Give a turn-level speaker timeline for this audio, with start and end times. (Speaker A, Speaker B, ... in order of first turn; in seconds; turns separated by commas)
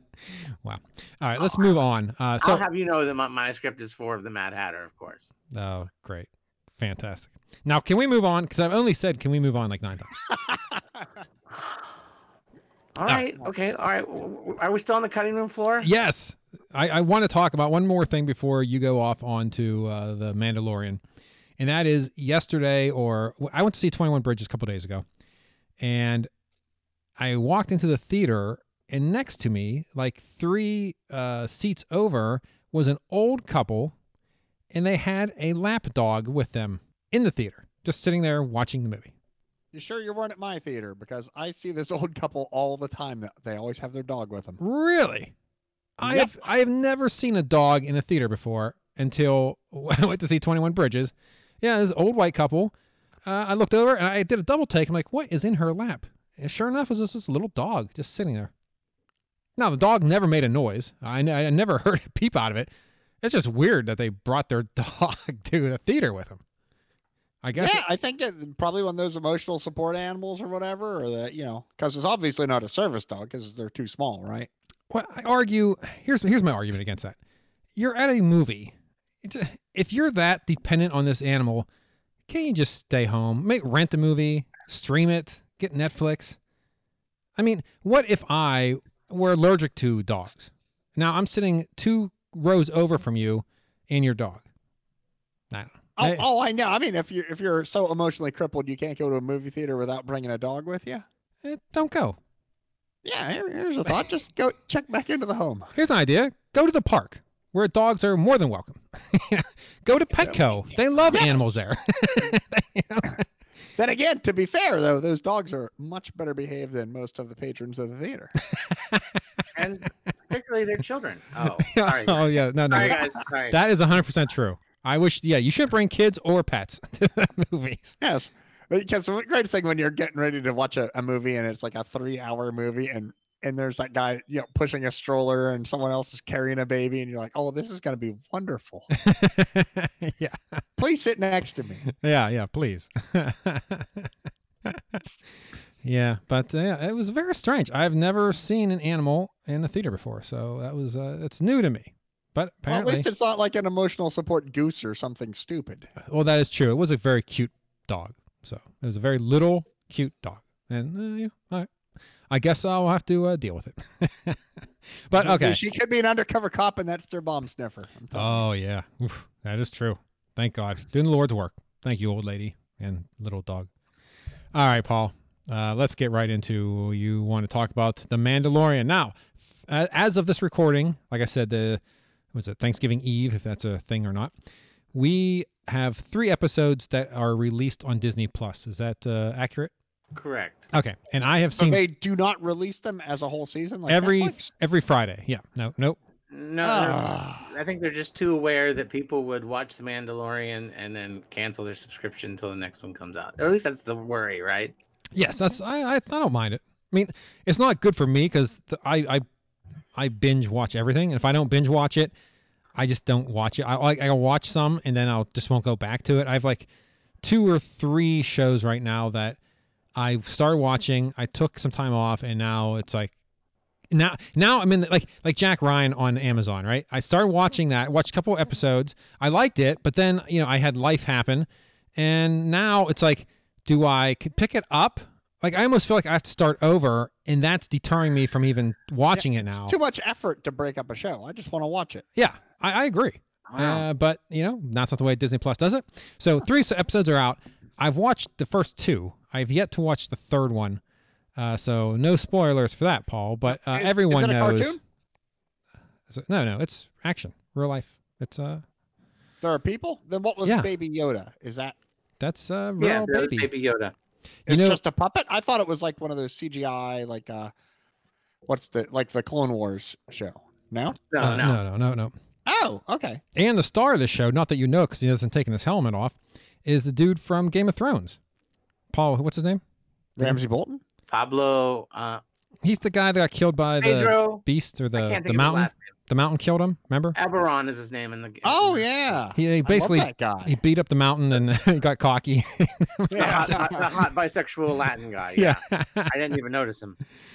Speaker A: 0.3-2.6, Speaker B: 2.4-5.3, Speaker A: 5.5-10.1, Speaker C: 10.4-11.0, Speaker B: 12.9-15.9, Speaker A: 15.8-21.0, Speaker A: 21.6-25.0, Speaker A: 25.8-26.3, Speaker A: 27.2-33.9, Speaker A: 34.7-39.1, Speaker C: 39.7-44.6, Speaker A: 44.6-45.3, Speaker A: 46.0-58.5, Speaker C: 46.0-46.3, Speaker A: 59.6-62.7, Speaker A: 63.2-66.4, Speaker A: 67.4-67.8, Speaker C: 67.5-74.5, Speaker A: 74.9-77.2, Speaker A: 77.8-81.7, Speaker A: 82.3-86.4, Speaker A: 87.4-94.5, Speaker A: 95.5-96.2, Speaker C: 96.0-101.0, Speaker A: 101.4-102.2, Speaker C: 103.0-105.7, Speaker A: 105.7-113.2, Speaker C: 110.2-110.5, Speaker C: 111.0-111.5, Speaker C: 113.8-118.3, Speaker A: 118.5-119.1, Speaker B: 119.5-123.6, Speaker A: 121.6-128.0, Speaker C: 128.0-138.9, Speaker A: 138.9-140.6, Speaker C: 140.8-141.9, Speaker A: 142.0-144.1, Speaker A: 144.6-145.0, Speaker A: 145.8-153.1, Speaker C: 152.7-155.9, Speaker A: 156.0-161.7, Speaker A: 162.3-164.4, Speaker A: 164.9-165.6, Speaker C: 165.1-168.4, Speaker A: 168.1-173.7, Speaker A: 174.5-181.8, Speaker A: 182.3-184.3, Speaker A: 184.9-189.7, Speaker B: 190.1-190.6, Speaker A: 190.7-191.8, Speaker C: 191.6-194.4, Speaker A: 193.9-196.0, Speaker B: 196.3-204.7, Speaker C: 196.6-197.5, Speaker A: 205.1-209.2, Speaker A: 209.9-212.1, Speaker A: 212.8-216.7, Speaker A: 217.2-219.4, Speaker A: 219.9-223.1, Speaker A: 223.9-239.8, Speaker C: 239.1-242.1, Speaker A: 242.2-250.8, Speaker B: 243.5-243.8, Speaker A: 251.3-254.8, Speaker C: 253.5-254.8, Speaker A: 256.1-258.6, Speaker C: 259.4-261.8, Speaker A: 260.4-260.7, Speaker A: 262.2-263.5, Speaker B: 262.8-263.9, Speaker A: 264.5-264.8, Speaker C: 264.5-267.5, Speaker C: 268.4-271.0, Speaker B: 271.1-271.6, Speaker A: 271.2-272.1, Speaker C: 272.4-273.2, Speaker A: 273.3-278.2, Speaker A: 278.9-279.6, Speaker C: 280.2-280.8, Speaker B: 281.1-282.2, Speaker A: 282.6-287.2, Speaker B: 283.8-284.4, Speaker B: 284.9-285.9, Speaker B: 287.1-288.9, Speaker C: 288.4-290.5, Speaker A: 289.3-293.8, Speaker C: 293.1-293.8, Speaker B: 293.1-297.0, Speaker A: 295.4-296.1